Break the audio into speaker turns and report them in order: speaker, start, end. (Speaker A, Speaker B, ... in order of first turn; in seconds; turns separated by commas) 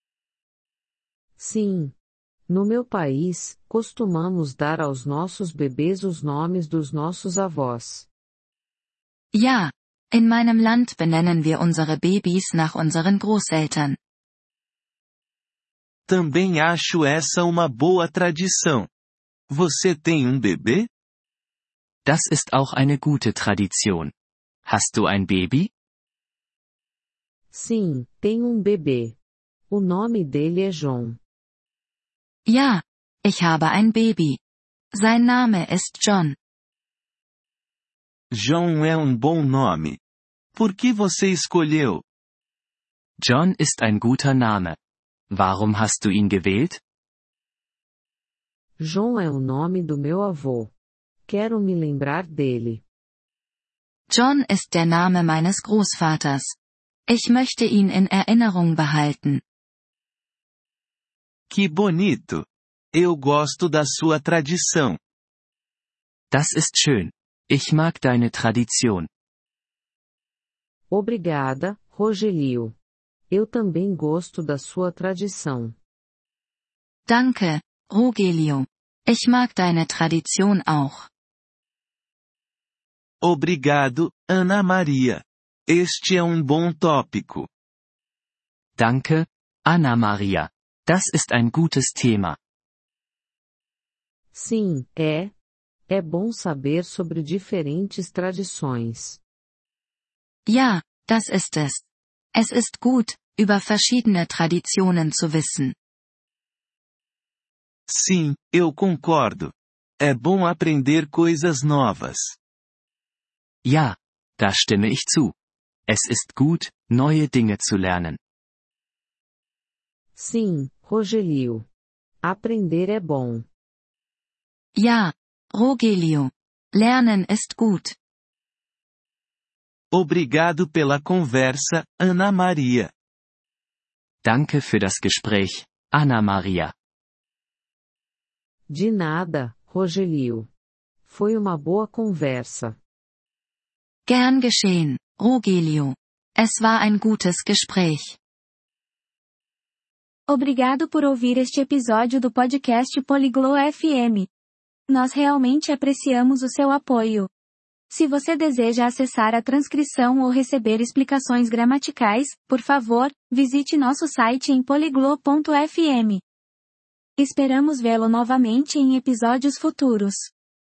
Speaker A: 1.4-1.9, Speaker A: 2.5-8.1, Speaker B: 9.3-14.0, Speaker C: 16.1-18.9, Speaker C: 19.5-20.9, Speaker D: 22.1-24.1, Speaker D: 24.6-25.7, Speaker A: 27.5-29.1, Speaker A: 29.7-31.2, Speaker B: 32.5-34.4, Speaker B: 34.9-36.4, Speaker C: 38.3-40.0, Speaker C: 40.5-42.0, Speaker D: 43.2-44.8, Speaker D: 45.3-46.8, Speaker A: 48.8-50.7, Speaker A: 51.3-52.8, Speaker B: 54.1-56.5, Speaker B: 57.1-59.4, Speaker C: 61.5-65.0, Speaker D: 66.3-69.1, Speaker A: 70.9-72.7, Speaker A: 73.3-75.8, Speaker B: 77.1-81.1, Speaker C: 83.2-87.5, Speaker D: 88.8-92.4, Speaker A: 94.3-95.3, Speaker A: 95.9-99.2, Speaker B: 100.5-105.7, Speaker C: 107.9-112.4, Speaker D: 113.6-115.3, Speaker D: 115.9-118.2, Speaker A: 120.2-121.6, Speaker A: 122.2-123.5, Speaker B: 124.8-127.9, Speaker C: 129.9-132.9, Speaker D: 134.2-136.7, Speaker A: 138.7-140.5, Speaker A: 141.0-142.8, Speaker B: 144.1-148.2, Speaker E: 150.3-154.3, Speaker E: 154.9-157.3, Speaker E: 157.9-166.2, Speaker E: 167.2-170.3